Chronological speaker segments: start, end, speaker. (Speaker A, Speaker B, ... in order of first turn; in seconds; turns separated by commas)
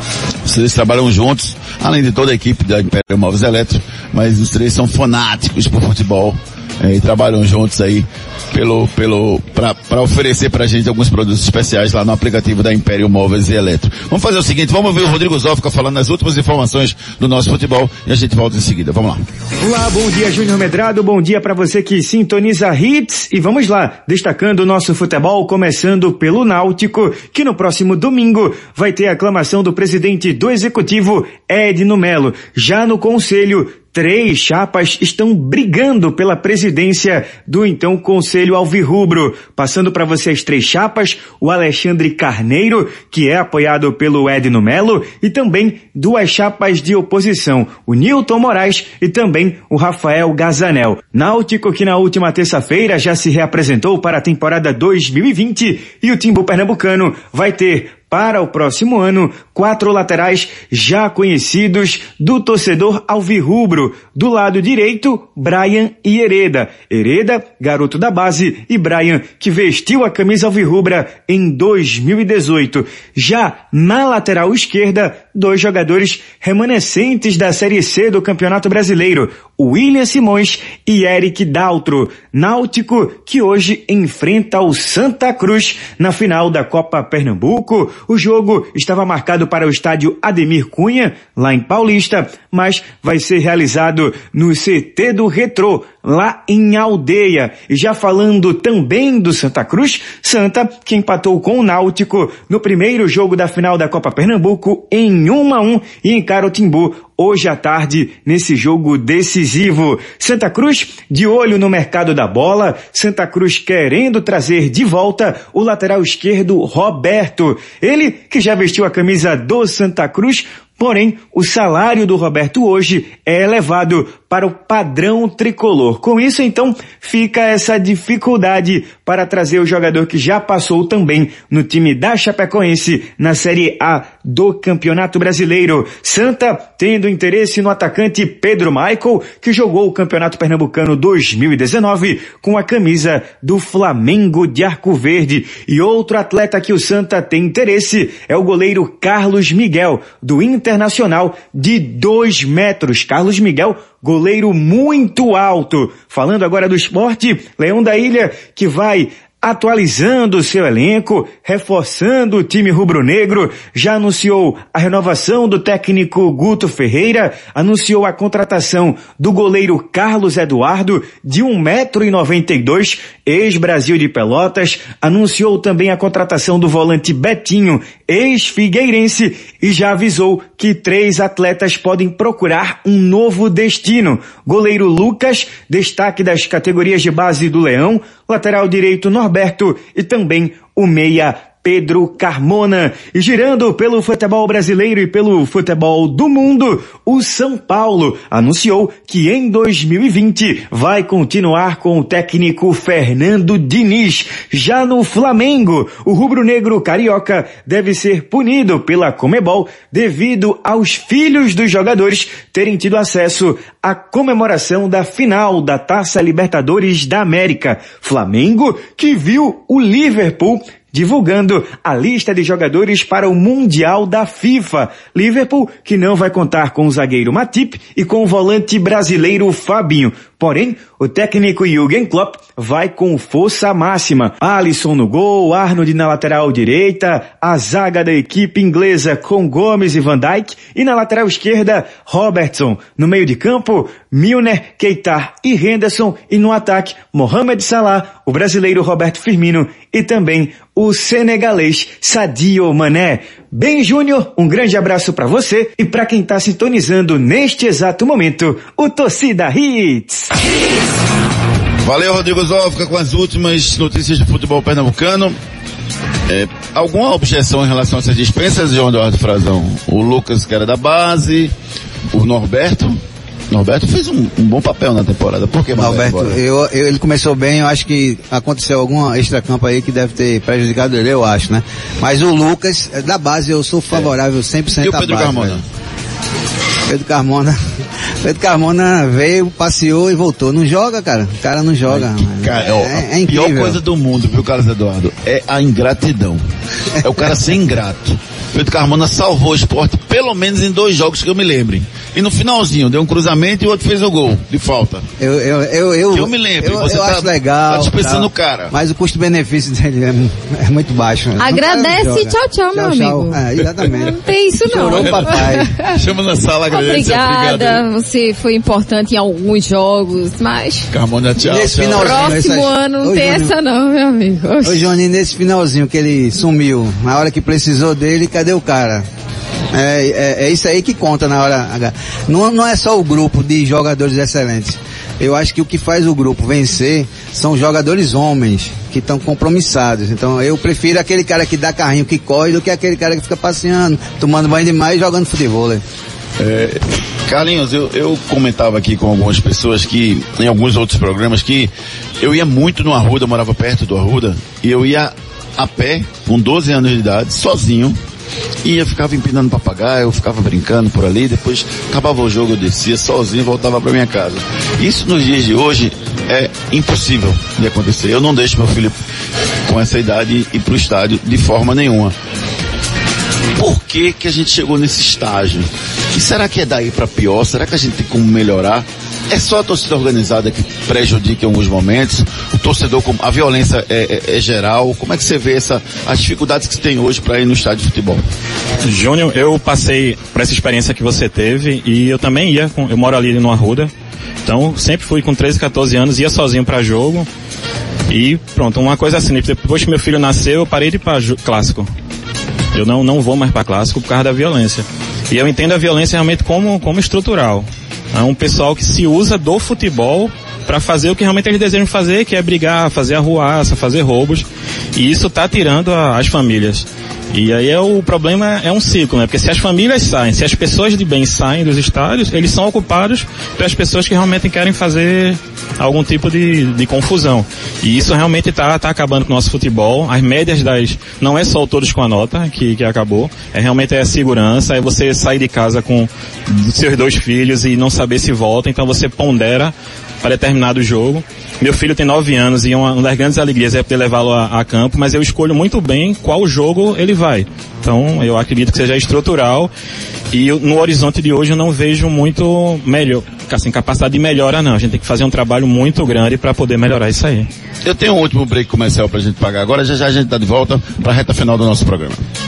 Speaker A: 0.5-19.2, Speaker B: 19.6-260.3, Speaker A: 261.8-265.4, Speaker A: 266.3-271.5, Speaker A: 272.1-273.0, Speaker A: 273.5-276.4, Speaker C: 275.8-285.6, Speaker A: 284.8-285.6, Speaker C: 286.9-287.6, Speaker C: 288.2-293.8, Speaker A: 291.9-296.4, Speaker A: 297.0-305.1, Speaker C: 305.2-315.7, Speaker A: 306.1-308.7, Speaker D: 311.4-316.0, Speaker A: 314.9-317.8, Speaker D: 316.7-320.9, Speaker A: 320.9-322.4, Speaker C: 321.4-323.5, Speaker D: 321.9-324.9, Speaker C: 324.6-329.1, Speaker C: 329.7-345.8, Speaker A: 346.4-358.0, Speaker A: 358.6-369.0, Speaker A: 369.7-372.1, Speaker A: 373.6-388.2, Speaker E: 388.8-393.9, Speaker E: 394.4-397.3, Speaker E: 398.1-401.9, Speaker E: 402.7-449.7, Speaker E: 450.3-457.5, Speaker A: 457.9-462.2